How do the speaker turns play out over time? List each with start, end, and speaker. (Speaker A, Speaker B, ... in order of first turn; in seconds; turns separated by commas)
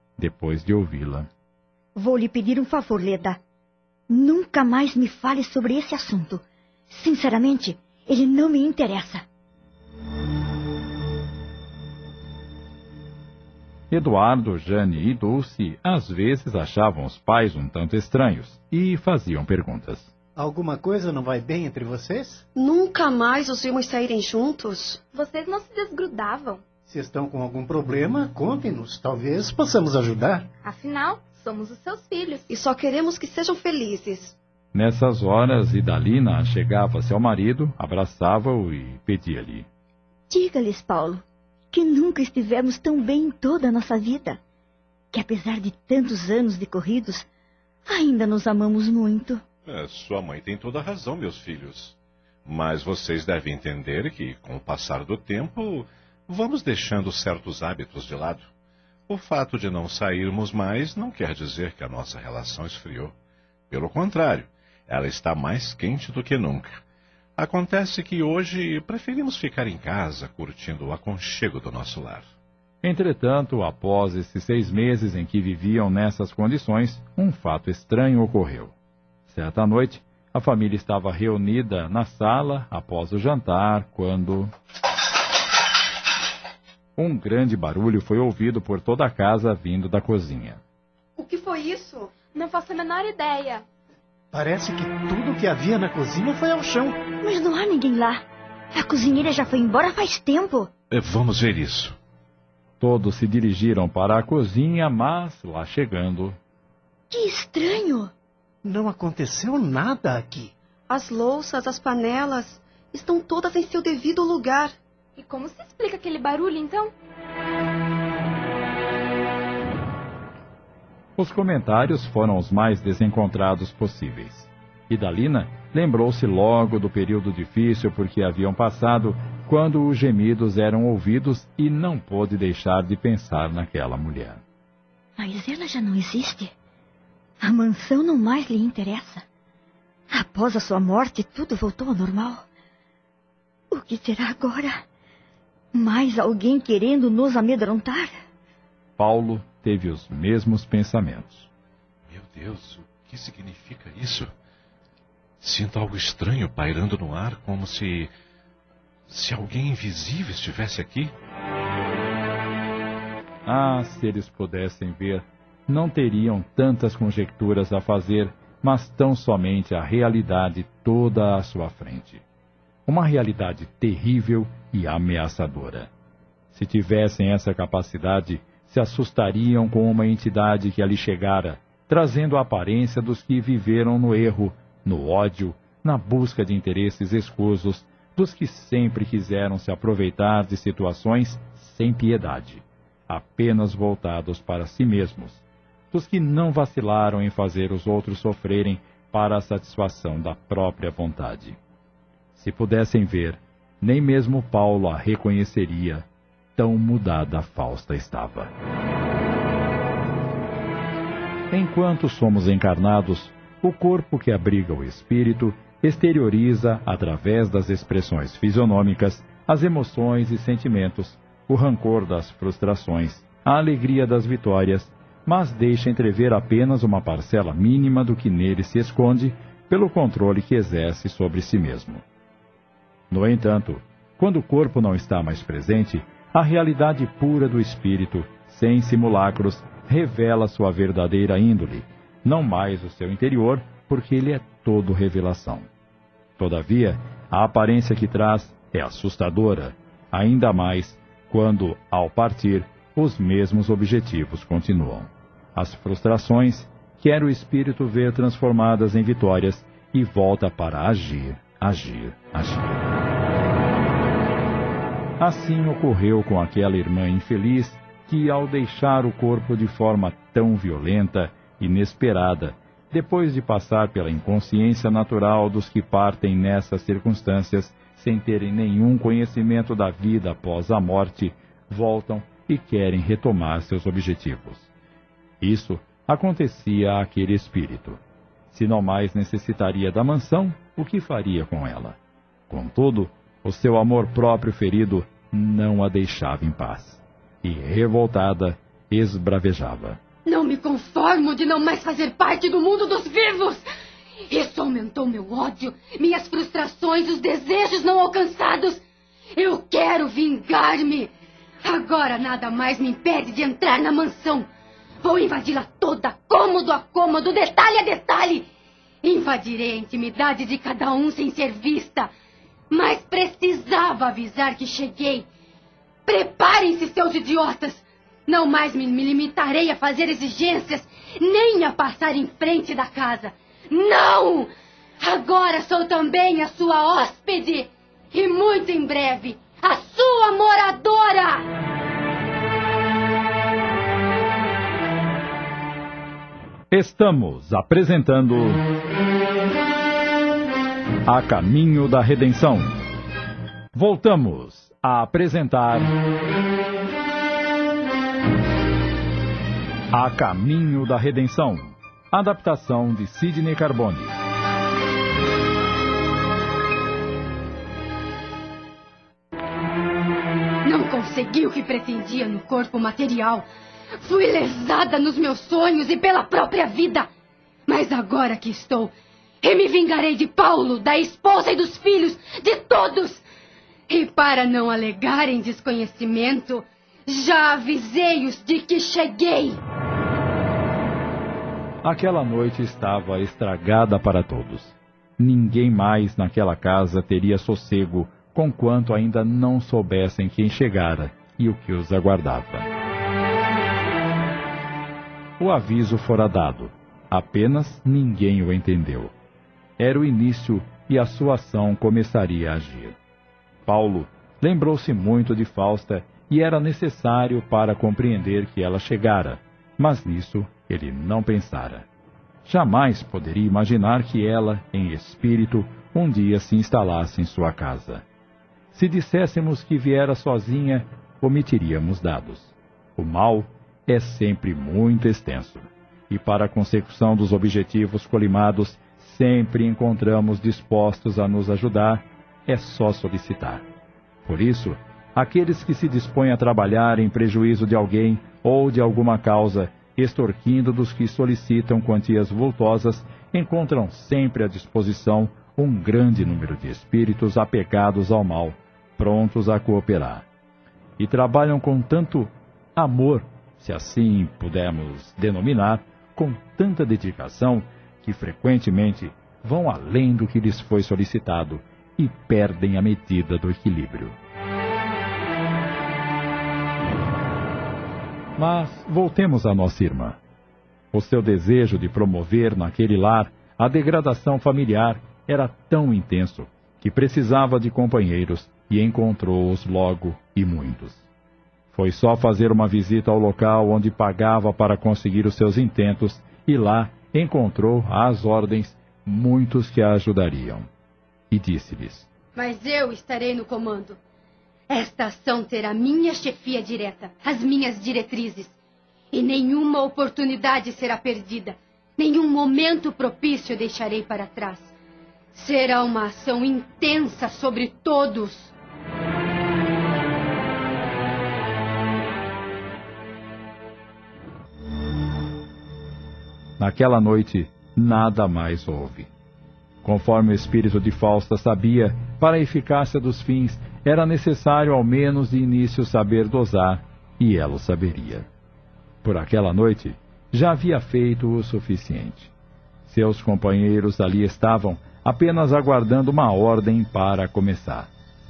Speaker A: 0.2-1.3, Speaker B: 1.9-3.4, Speaker B: 4.1-9.2, Speaker A: 13.9-20.1, Speaker C: 20.4-22.4, Speaker D: 22.6-25.0, Speaker E: 25.1-26.6, Speaker C: 26.9-30.5, Speaker E: 30.6-32.5, Speaker D: 32.5-34.4, Speaker A: 34.7-39.7, Speaker B: 40.3-44.4, Speaker B: 45.1-47.3, Speaker B: 47.9-49.4, Speaker F: 49.7-58.5, Speaker F: 59.1-63.1, Speaker F: 63.7-66.8, Speaker F: 67.4-72.3, Speaker A: 72.8-78.7, Speaker A: 79.3-84.5, Speaker A: 87.0-90.6, Speaker D: 91.2-92.1, Speaker E: 92.3-93.7, Speaker C: 94.3-97.0, Speaker B: 97.2-98.2, Speaker B: 98.7-100.7, Speaker F: 100.9-102.0, Speaker A: 102.8-106.4, Speaker B: 107.1-108.1, Speaker C: 108.6-110.5, Speaker D: 110.9-114.8, Speaker E: 115.2-116.9, Speaker A: 121.2-134.4, Speaker B: 135.2-136.5, Speaker B: 137.4-139.2, Speaker B: 140.1-142.4, Speaker B: 143.7-144.8, Speaker B: 145.7-148.1, Speaker A: 149.0-151.5, Speaker F: 152.1-154.3, Speaker F: 155.4-158.1, Speaker F: 159.1-161.1, Speaker A: 163.5-172.2, Speaker A: 172.9-175.9, Speaker A: 176.5-201.6, Speaker A: 202.3-208.5, Speaker A: 211.5-232.0, Speaker A: 233.1-245.7, Speaker A: 246.4-262.9, Speaker A: 265.2-284.7, Speaker A: 285.4-288.0, Speaker A: 288.5-292.0, Speaker A: 292.5-300.0, Speaker G: 300.3-303.7, Speaker G: 304.3-308.8, Speaker G: 309.4-311.1, Speaker G: 311.6-314.5, Speaker G: 315.0-318.5, Speaker G: 319.0-322.1, Speaker G: 322.7-325.3, Speaker G: 326.1-334.5, Speaker G: 335.0-341.5, Speaker A: 346.7-348.6, Speaker A: 351.1-352.8, Speaker A: 353.7-355.9, Speaker A: 359.9-364.2, Speaker G: 370.6-373.5, Speaker G: 374.0-377.1, Speaker G: 377.7-383.2, Speaker G: 383.9-389.6, Speaker A: 391.8-402.7, Speaker A: 405.4-409.1, Speaker A: 409.8-413.0, Speaker A: 413.6-421.9, Speaker A: 422.4-428.0, Speaker A: 428.7-443.6, Speaker A: 444.2-460.3, Speaker A: 461.0-474.2, Speaker A: 478.4-480.2, Speaker A: 480.9-491.0, Speaker A: 491.7-500.7, Speaker A: 501.3-502.1, Speaker G: 502.4-504.0, Speaker G: 504.7-508.6, Speaker G: 509.1-514.7, Speaker G: 515.3-518.5, Speaker A: 526.6-529.1, Speaker A: 529.8-538.3, Speaker A: 539.0-542.3, Speaker A: 542.9-547.9